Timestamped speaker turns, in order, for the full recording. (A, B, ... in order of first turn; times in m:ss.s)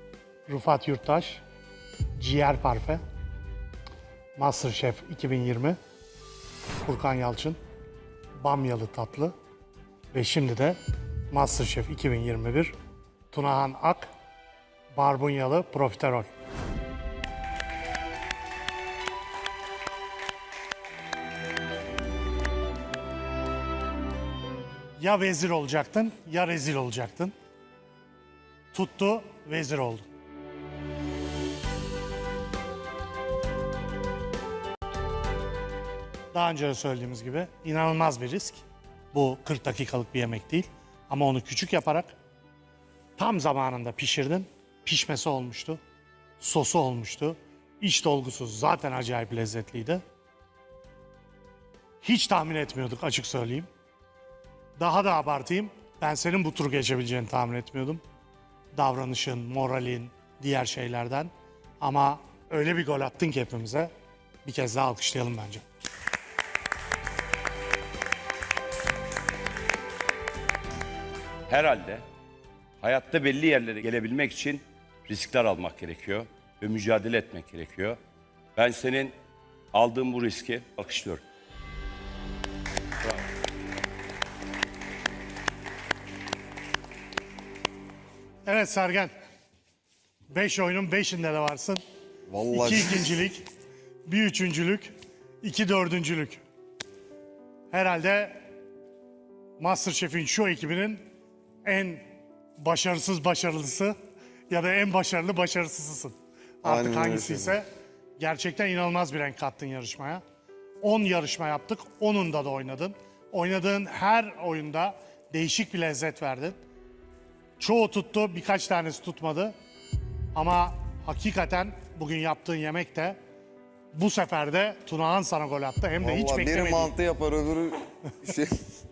0:00.5-0:01.4 A
0:02.2-0:03.0 A
0:04.4-0:05.8 A
0:06.8-0:07.6 A
0:08.4-0:09.3 A
0:10.1-0:10.8 A
0:11.3-0:12.7 A
0:13.3-0:14.1 A
0:14.9-0:16.3 A
0:25.0-0:27.3 A
0:28.7-0:30.0 A
0:36.3-0:42.1 A
0:43.2-0:45.8 A
0:46.4-0:50.0 A
0:52.0-0:53.7 A
0:54.8-0:58.0 A
0:58.7-1:03.9 A
1:04.4-1:05.6 A
1:11.5-1:12.0 B
1:12.8-1:18.0 B
1:18.6-1:19.1 B
1:19.7-1:21.2 B
1:28.4-1:29.1 A
1:30.3-1:31.8 A
1:32.3-1:33.1 C
1:32.5-1:33.5 A
1:34.0-1:36.4 A
1:37.7-1:38.4 A
1:39.6-1:41.0 A
1:41.6-1:42.0 A
1:42.6-1:44.0 A
1:44.5-1:47.6 A
1:46.6-1:47.5 C
1:48.2-1:50.2 A
1:50.8-1:56.6 A
1:57.6-1:59.5 A
2:00.3-2:03.2 A
2:03.9-2:06.9 A
2:06.0-2:08.6 C